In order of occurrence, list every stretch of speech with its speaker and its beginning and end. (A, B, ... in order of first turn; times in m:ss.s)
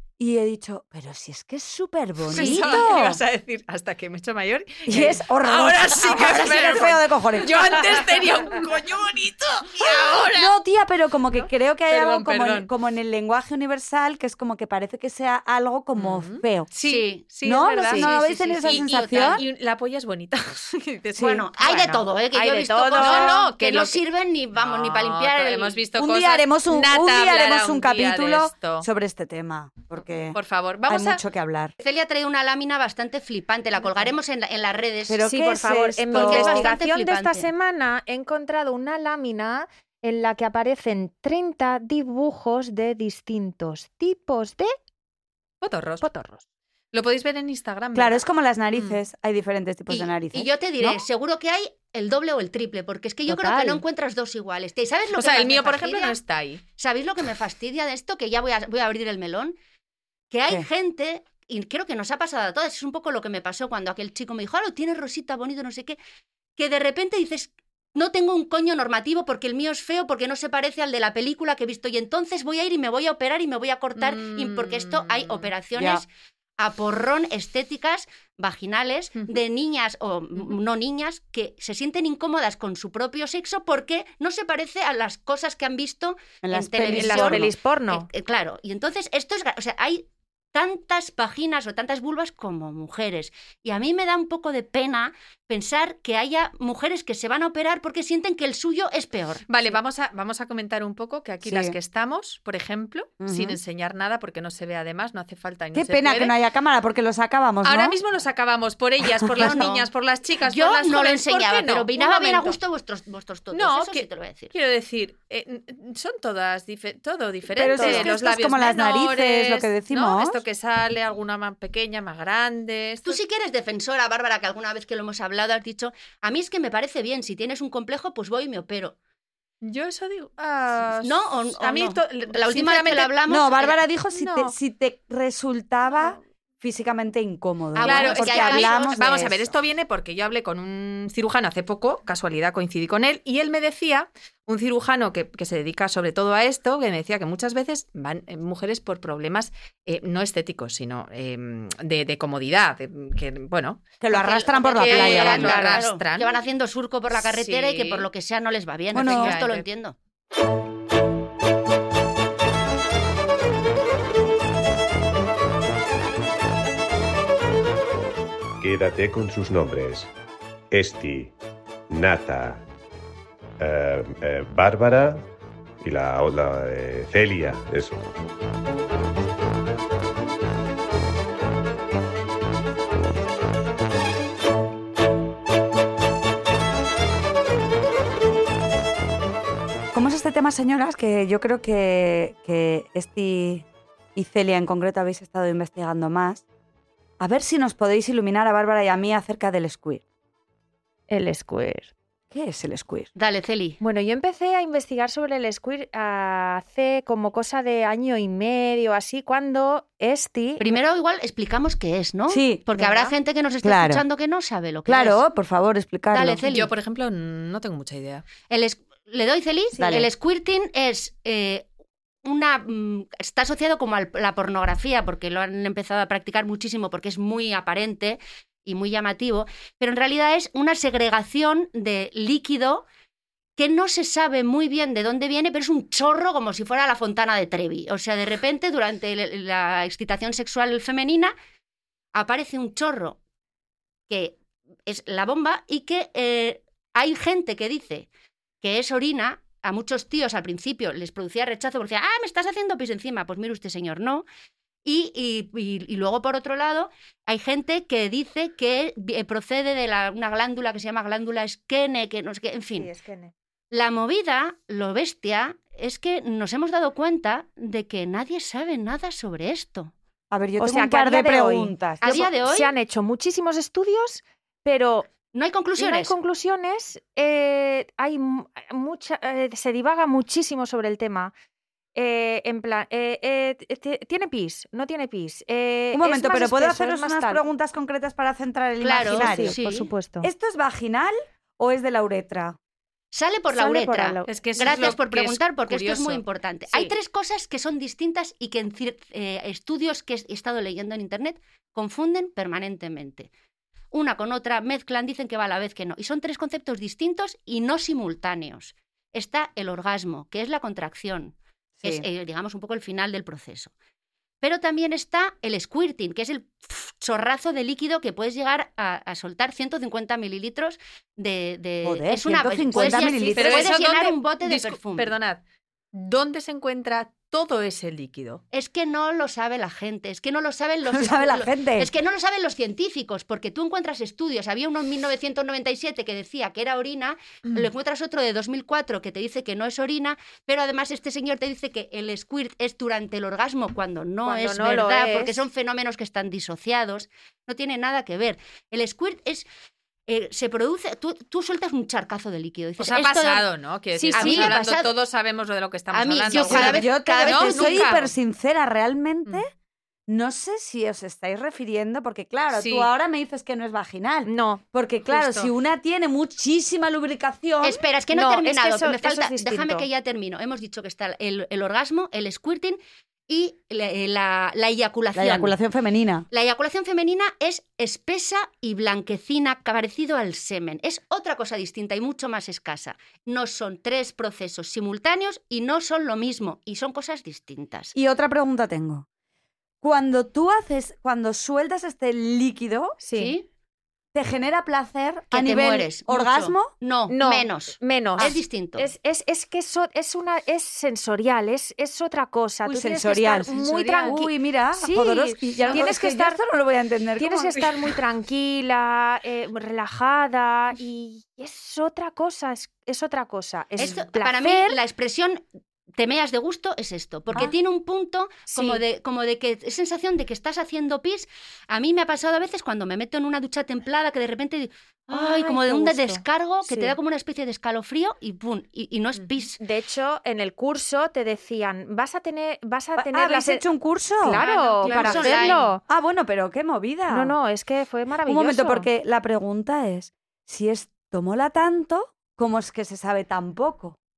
0:00.2-0:03.2 A
0:02.3-0:10.6 B
0:02.3-0:03.0 C
0:04.9-0:08.3 A
0:10.3-0:16.7 A
0:11.3-0:12.7 B
0:16.0-0:18.1 B
0:16.8-0:17.3 C
0:17.4-0:19.4 A
0:17.8-0:19.4 C
0:18.6-0:22.1 B
0:21.2-0:21.4 A
0:21.2-0:25.8 C
0:22.3-0:23.3 D
0:22.9-0:24.0 B
0:24.6-0:28.9 B
0:26.0-0:31.7 A
0:30.3-0:31.2 B
0:31.8-0:35.2 C
0:35.1-0:36.7 A
0:35.2-0:44.7 D
0:36.1-0:37.5 C
0:45.6-0:46.1 B
0:46.0-0:46.4 D
0:46.9-0:48.2 B
0:48.0-0:51.0 A
0:49.9-0:56.2 C
0:53.3-0:53.8 A
0:55.2-0:56.6 B
0:56.8-0:59.6 C
1:00.3-1:06.0 C
1:06.6-1:16.1 C
1:14.0-1:15.5 B
1:15.8-1:16.0 A
1:16.6-1:39.4 C
1:26.4-1:27.5 A
1:26.9-1:28.1 D
1:39.5-1:46.4 B
1:41.4-1:41.8 A
1:43.2-1:43.6 A
1:45.7-1:48.0 A
1:47.6-1:52.6 B
1:49.1-1:49.7 A
1:49.4-1:49.8 C
1:50.4-1:54.5 C
1:53.5-2:03.2 B
1:57.5-2:00.4 A
1:57.8-1:58.1 D
2:03.0-2:09.0 C
2:09.6-2:13.1 B
2:11.0-2:13.8 C
2:13.3-2:19.5 A
2:14.2-2:14.5 B
2:17.8-2:19.0 C
2:17.8-2:36.4 B
2:34.0-2:35.8 A
2:34.1-2:40.0 C
2:37.2-2:38.1 B
2:38.9-2:39.4 A
2:38.9-2:39.6 B
2:48.6-2:50.1 E
2:50.7-2:51.3 E
2:51.9-2:52.6 E
2:53.6-2:55.2 E
2:55.8-2:58.0 E
3:09.9-3:16.4 A
3:17.2-3:20.0 A
3:21.1-3:21.9 D
3:22.3-3:23.1 A
3:23.2-3:23.8 C
3:23.8-3:30.8 D
3:30.6-3:35.2 C
3:32.3-3:32.7 A
3:32.7-3:33.1 D
3:33.6-3:34.0 A
3:34.9-3:36.4 A
3:36.1-3:36.7 C
3:36.5-3:38.2 B
3:38.5-3:41.7 C
3:39.8-3:40.1 A
3:42.2-3:52.9 C
3:53.6-4:01.3 C
4:02.1-4:03.2 C
4:04.1-4:08.1 C
4:08.6-4:14.2 C
4:14.8-4:22.9 C
4:22.8-4:23.3 D
4:23.7-4:29.9 C
4:30.3-4:32.3 A
4:30.6-4:35.1 D
4:32.0-4:32.7 C
4:35.3-4:36.2 C
4:35.8-4:41.3 D
4:42.0-4:47.4 D
4:45.9-4:49.6 A
4:48.8-4:49.9 C
4:49.1-4:50.3 D
4:50.2-4:52.6 A
4:53.1-5:03.3 C
4:53.5-4:54.3 D
4:54.3-4:56.9 B
5:03.9-5:13.7 C
5:11.8-5:12.1 A
5:14.4-5:25.1 C
5:21.8-5:23.7 A
5:22.8-5:25.4 B
5:25.9-5:28.4 B
5:28.5-5:49.5 C
5:30.9-5:31.9 A
5:44.2-5:45.4 D
5:50.1-5:53.5 C
5:52.8-5:58.1 B
5:54.0-5:54.6 D
5:54.1-5:54.9 C
5:55.9-5:57.9 C
5:56.3-5:59.5 A
6:00.1-6:07.8 A
6:02.5-6:02.9 B
6:04.3-6:04.6 D
6:05.1-6:05.5 B
6:07.6-6:15.6 C
6:08.1-6:09.9 D
6:15.2-6:16.2 A
6:16.3-6:27.9 C
6:28.0-6:29.1 A
6:29.8-6:33.0 A
6:33.0-6:33.3 D
6:33.1-6:33.5 C
6:34.1-6:36.7 A
6:35.3-6:38.9 C
6:37.1-6:38.3 B
6:38.1-6:46.4 D
6:42.6-6:47.9 A
6:43.5-6:44.2 B
6:45.6-6:45.9 C
6:47.2-6:54.8 D
6:53.8-6:55.4 C
6:56.0-7:09.6 C
6:58.5-6:58.8 D
7:05.1-7:07.0 D
7:09.6-7:13.6 D
7:13.0-7:17.4 A
7:14.2-7:15.8 D
7:14.4-7:15.7 C
7:17.1-7:18.9 D
7:18.3-7:24.0 A